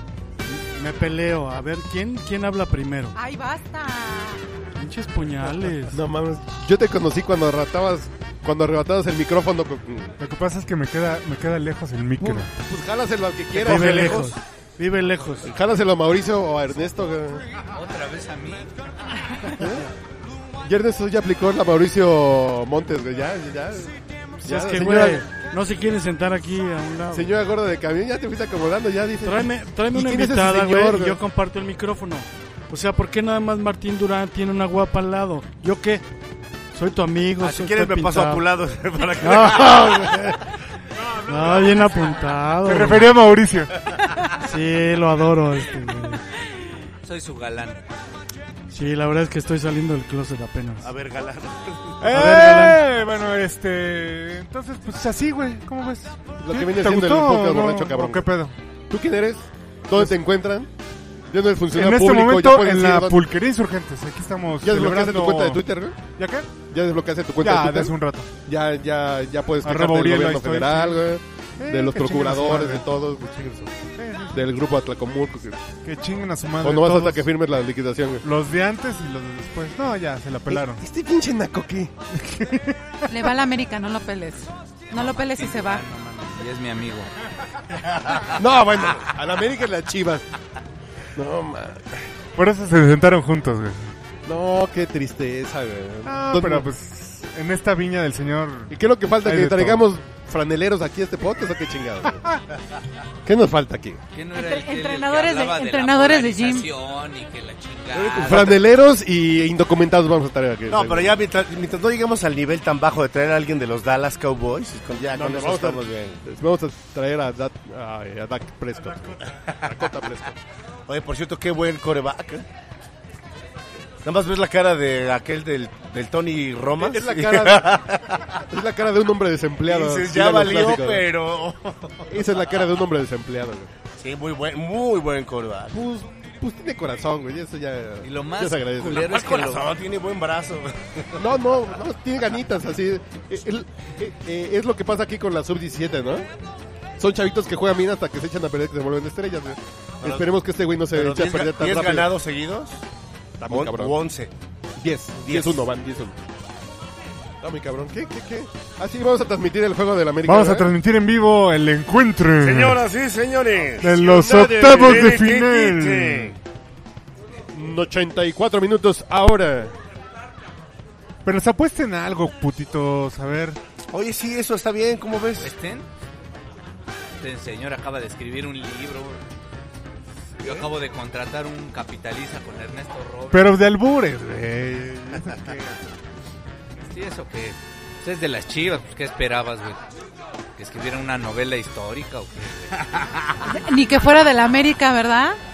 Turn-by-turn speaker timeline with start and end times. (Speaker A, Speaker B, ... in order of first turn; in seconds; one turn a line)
Speaker A: 0.5-3.2
Speaker B: 3.1-4.4
Speaker A: 4.8-6.0
Speaker C: 5.9-10.2
Speaker D: 10.2-12.5
Speaker C: 12.3-14.3
Speaker E: 13.6-14.3
Speaker A: 13.6-15.5
Speaker C: 15.4-17.4
Speaker F: 17.7-18.7
Speaker C: 19.6-19.9
Speaker C: 20.6-23.9
Speaker A: 24.4-27.3
Speaker C: 24.4-25.2
Speaker C: 27.1-31.2
Speaker A: 29.2-36.0
Speaker A: 36.7-38.4
Speaker E: 37.4-40.3
Speaker A: 39.2-40.4
Speaker D: 41.0-42.1
Speaker A: 41.3-43.1
Speaker D: 42.6-43.9
Speaker A: 44.4-46.2
Speaker F: 47.0-47.8
Speaker A: 48.7-50.9
Speaker E: 50.8-52.1
Speaker D: 52.0-58.5
Speaker A: 52.1-52.8
Speaker C: 56.4-58.3
Speaker C: 58.9-60.7
Speaker C: 61.3-63.2
Speaker D: 61.7-66.5
Speaker C: 64.6-66.0
Speaker C: 66.6-73.7
Speaker D: 67.4-68.3
Speaker D: 69.6-71.1
Speaker D: 71.6-72.8
Speaker D: 74.0-74.4
Speaker C: 74.3-75.6
Speaker D: 75.8-77.3
Speaker C: 76.6-78.2
Speaker D: 78.2-80.8
Speaker C: 80.5-81.9
Speaker D: 82.2-83.0
Speaker B: 83.1-85.8
Speaker F: 84.9-87.1
Speaker C: 88.3-90.3
Speaker C: 91.2-92.1
Speaker D: 92.4-93.9
Speaker C: 94.3-96.7
Speaker D: 96.0-99.8
Speaker C: 98.7-102.2
Speaker C: 103.2-104.0
Speaker F: 104.2-108.6
Speaker B: 104.3-106.7
Speaker E: 107.9-108.7
Speaker C: 108.2-111.2
Speaker E: 110.7-116.2
Speaker C: 115.1-120.4
Speaker E: 120.9-122.4
Speaker E: 124.0-128.4
Speaker C: 126.8-131.1
Speaker E: 129.7-132.1
Speaker C: 132.1-133.7
Speaker E: 134.0-135.8
Speaker C: 135.7-139.1
Speaker F: 138.0-139.7
Speaker E: 138.9-141.2
Speaker C: 141.2-146.3
Speaker C: 147.0-152.1
Speaker E: 150.9-152.8
Speaker C: 153.4-154.0
Speaker E: 153.5-154.3
Speaker C: 154.8-156.2
Speaker E: 155.2-155.6
Speaker C: 157.4-160.7
Speaker D: 160.2-162.8
Speaker E: 162.4-166.3
Speaker D: 163.8-166.4
Speaker C: 164.0-165.1
Speaker C: 167.5-169.8
Speaker D: 171.2-173.6
Speaker E: 173.9-175.5
Speaker F: 175.4-175.9
Speaker F: 177.2-179.2
Speaker F: 180.4-183.4
Speaker D: 183.3-185.7
Speaker F: 186.8-189.8
Speaker F: 190.6-193.2
Speaker B: 193.4-195.4